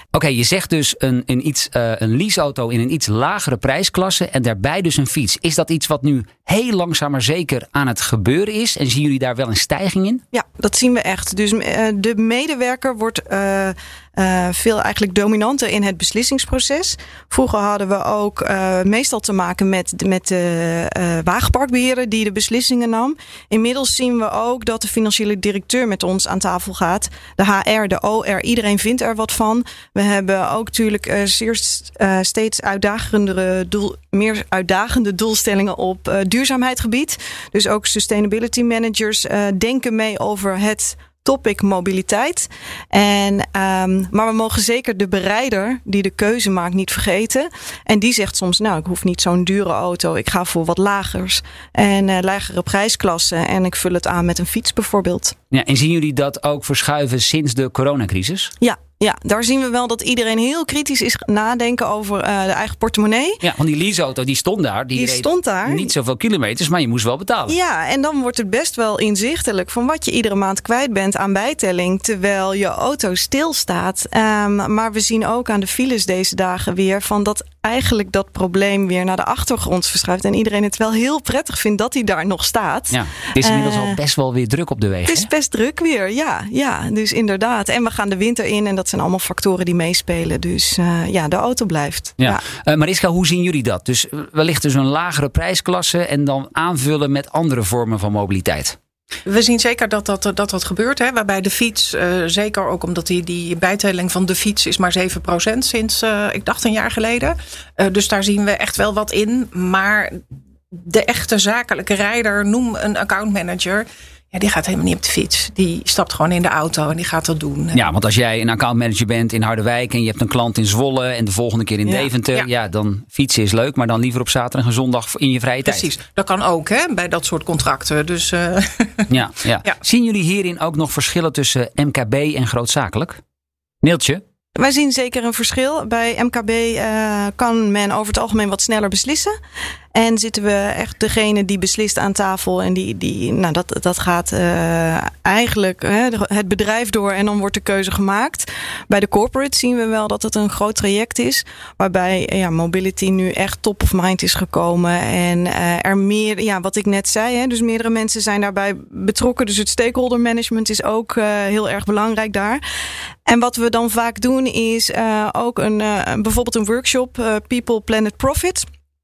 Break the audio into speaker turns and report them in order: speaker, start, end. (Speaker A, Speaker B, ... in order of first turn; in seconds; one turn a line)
Speaker A: 0.1-10.2
Speaker B: 10.3-55.4
Speaker A: 55.5-58.5
Speaker B: 58.6-63.4
Speaker A: 63.4-67.5
Speaker B: 65.0-65.9
Speaker B: 67.5-84.0
Speaker A: 82.9-85.3
Speaker B: 85.0-92.4
Speaker A: 92.2-98.8
Speaker C: 99.2-110.2
Speaker C: 110.7-117.9
Speaker A: 117.7-125.9
Speaker C: 125.6-129.1
Speaker A: 129.1-133.2
Speaker A: 133.8-134.2
Speaker B: 134.5-139.3
Speaker B: 139.9-162.6
Speaker B: 163.2-168.6